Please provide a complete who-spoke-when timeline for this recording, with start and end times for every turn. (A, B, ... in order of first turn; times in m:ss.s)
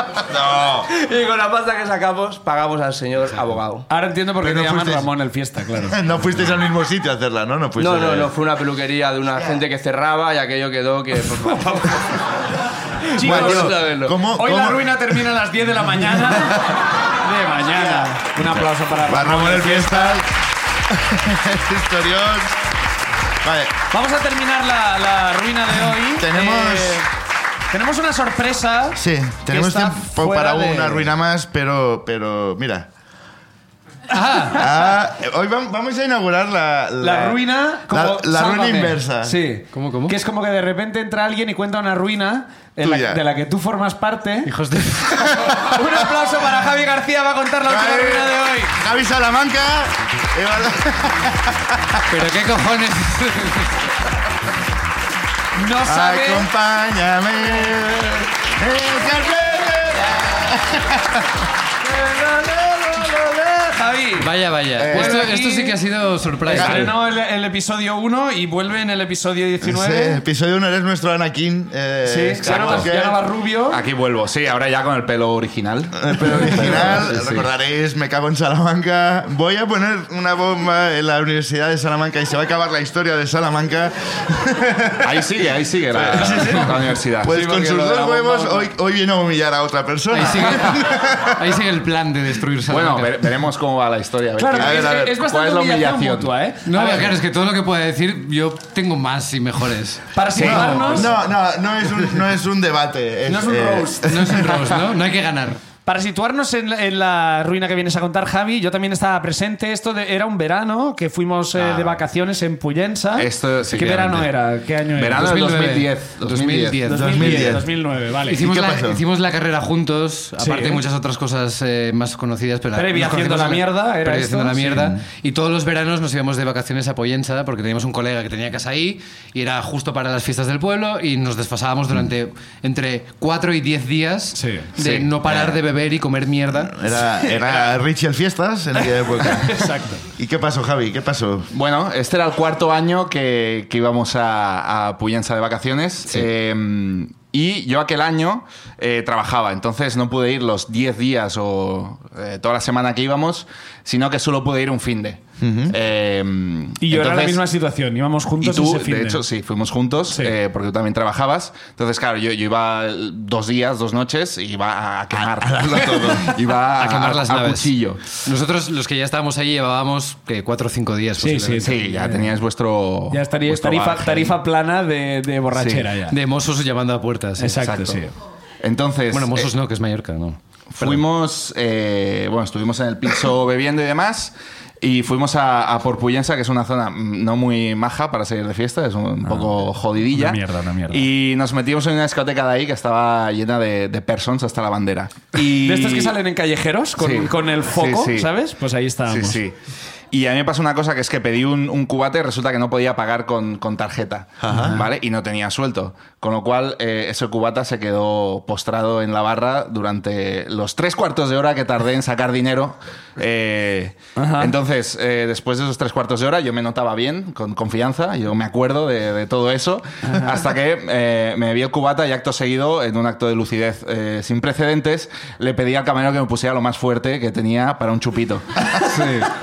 0:00.2-0:00.9 A
0:00.9-0:03.9 B
0:03.9-0:06.0 C
0:04.4-0:05.1 A
0:05.8-0:08.3 A
0:07.8-0:12.2 B
0:13.0-0:14.2 B
0:13.2-0:13.8 C
0:13.2-0:15.0 A
0:14.3-0:20.2 C
0:16.2-0:16.8 A
0:17.7-0:20.3 A
0:20.9-0:22.6 A
0:23.4-0:23.8 A
0:23.9-0:27.1 C
0:26.1-0:27.1 A
0:27.7-0:31.1 C
0:29.0-0:32.9 A
0:34.1-0:34.6 D
0:34.2-0:34.7 C
0:34.5-0:39.4 A
0:37.0-0:44.5 C
0:39.7-0:40.2 D
0:42.8-0:43.2 A
0:44.4-0:45.4 D
0:45.4-0:45.8 A
0:45.5-0:48.8 C
0:47.7-0:52.0 A
0:52.1-0:53.7 D
0:55.6-0:56.5 C
0:55.8-1:01.3 A
1:01.8-1:05.8 C
1:04.2-1:06.9 D
1:04.8-1:05.3 A
1:06.4-1:10.2 C
1:06.5-1:06.9 A
1:09.6-1:13.2 A
1:12.1-1:13.8 C
1:12.4-1:12.9 E
1:13.7-1:17.5 E
1:16.0-1:25.2 A
1:25.0-1:27.5 E
1:25.9-1:31.6 A
1:26.2-1:26.7 C
1:27.8-1:28.4 C
1:30.1-1:33.3 D
1:32.7-1:36.3 E
1:34.4-1:37.2 C
1:34.6-1:35.1 A
1:36.6-1:41.0 D
1:40.2-1:41.1 C
1:40.4-1:40.9 E
1:40.5-1:44.8 A
1:43.3-1:44.4 C
1:44.0-1:45.6 D
1:45.9-1:55.6 C
1:51.5-1:52.0 E
1:53.2-1:54.3 E
1:54.9-1:56.8 E
1:55.2-1:57.6 D
1:56.8-1:58.4 C
1:56.9-1:57.7 A
1:58.3-2:16.8 D
1:58.3-1:59.0 A
2:00.4-2:00.8 C
2:02.7-2:04.9 C
2:14.4-2:14.7 C
2:14.8-2:15.1 E
2:15.3-2:15.6 A
2:16.5-2:21.5 A
2:19.2-2:20.0 C
2:21.5-2:37.4 E
2:35.4-2:35.7 A
2:36.8-2:39.2 C
2:38.4-2:48.0 E
2:45.1-2:46.3 A
2:46.8-2:47.7 D
2:48.2-2:51.8 D
2:51.2-2:52.4 C
2:51.6-2:54.4 E
2:53.1-2:56.2 C
2:55.6-2:55.9 E
2:56.1-2:57.6 D
2:57.4-2:58.1 C
2:57.6-2:58.0 E
2:58.6-2:59.5 E
2:59.1-3:01.0 D
3:00.7-3:16.1 E
3:09.2-3:09.6 C
3:10.1-3:11.1 C
3:15.4-3:19.4 C
3:17.0-3:18.3 E
3:19.1-3:19.5 E
3:20.1-3:48.7 E
3:24.4-3:24.8 A
3:34.2-3:34.6 C
3:48.9-3:49.3 D